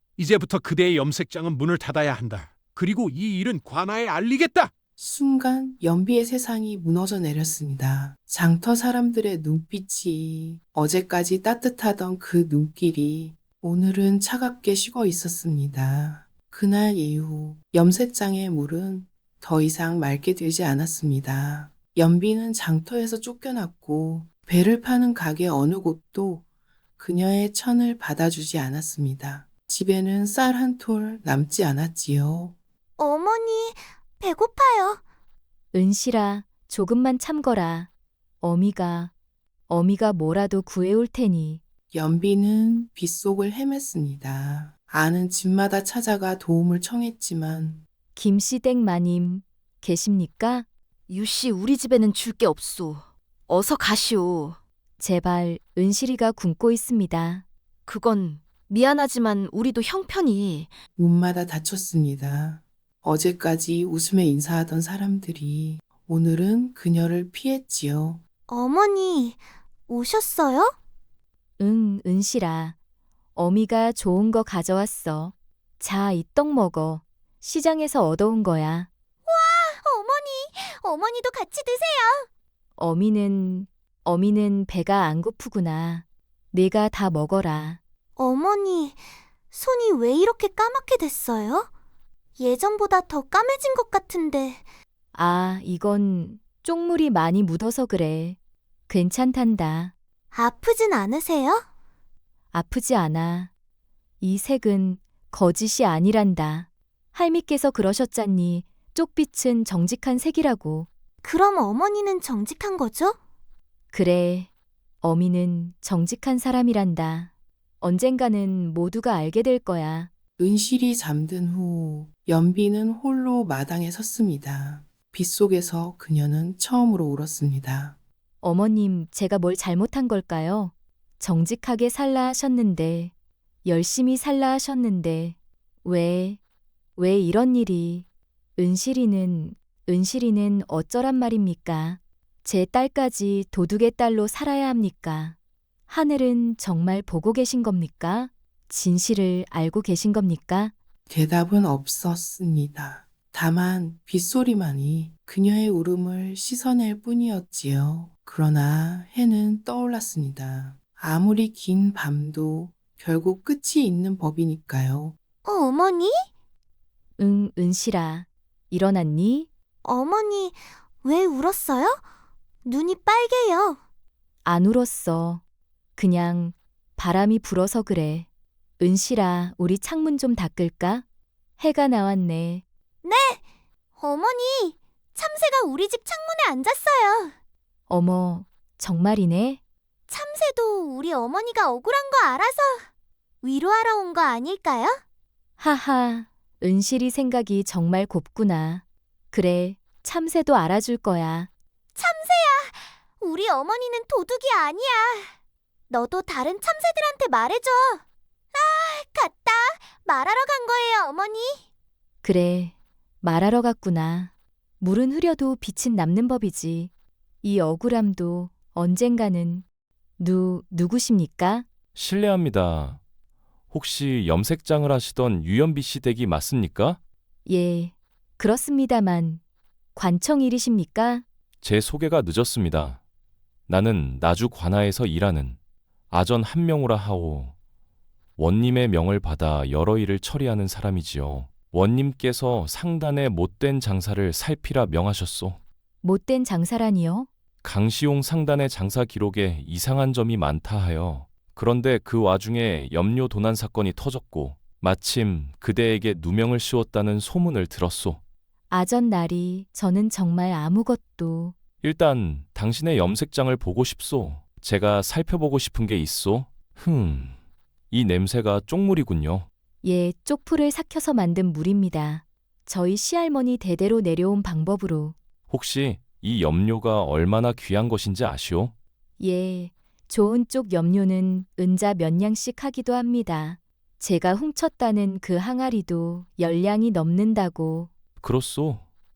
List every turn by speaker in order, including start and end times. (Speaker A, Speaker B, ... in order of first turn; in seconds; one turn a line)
Speaker A: 0.2-4.7
Speaker B: 5.0-26.4
Speaker B: 27.0-32.5
Speaker C: 33.0-35.0
Speaker D: 35.7-37.9
Speaker D: 38.4-39.1
Speaker D: 39.7-41.6
Speaker B: 41.9-47.8
Speaker D: 48.1-50.6
Speaker E: 51.1-54.6
Speaker D: 55.0-57.4
Speaker E: 57.9-60.8
Speaker B: 61.0-68.2
Speaker C: 68.5-70.7
Speaker D: 71.6-72.8
Speaker D: 73.3-78.9
Speaker C: 79.3-82.3
Speaker D: 82.8-87.8
Speaker C: 88.2-89.0
Speaker C: 89.5-91.7
Speaker C: 92.4-94.6
Speaker D: 95.1-98.4
Speaker D: 98.9-99.9
Speaker C: 100.3-101.6
Speaker D: 102.5-103.5
Speaker D: 104.2-110.9
Speaker C: 111.2-113.2
Speaker D: 113.9-114.5
Speaker D: 115.0-117.3
Speaker D: 117.8-120.1
Speaker B: 120.4-128.0
Speaker D: 128.4-133.1
Speaker D: 133.6-136.4
Speaker D: 137.0-138.1
Speaker D: 138.6-145.3
Speaker D: 145.9-150.7
Speaker B: 151.1-165.2
Speaker C: 165.4-166.3
Speaker D: 167.2-169.5
Speaker C: 169.8-172.0
Speaker C: 172.6-173.8
Speaker D: 174.4-175.4
Speaker D: 176.0-178.3
Speaker D: 178.8-181.0
Speaker D: 181.6-182.6
Speaker C: 183.0-183.4
Speaker C: 184.0-187.3
Speaker D: 187.9-189.6
Speaker C: 190.1-192.9
Speaker C: 193.4-195.0
Speaker D: 195.6-201.5
Speaker C: 201.9-205.3
Speaker C: 205.9-208.0
Speaker C: 208.5-211.6
Speaker D: 212.2-216.9
Speaker D: 217.4-219.6
Speaker D: 220.2-221.7
Speaker F: 221.9-223.0
Speaker F: 223.7-227.0
Speaker D: 227.4-229.4
Speaker D: 229.9-231.2
Speaker F: 231.6-233.0
Speaker F: 233.7-235.6
Speaker F: 236.1-237.5
Speaker F: 238.4-245.6
Speaker D: 246.0-247.3
Speaker F: 247.6-258.2
Speaker D: 258.7-261.6
Speaker F: 261.8-267.4
Speaker F: 267.9-269.5
Speaker D: 269.8-275.1
Speaker F: 275.5-278.7
Speaker D: 279.2-287.9
Speaker F: 288.2-288.8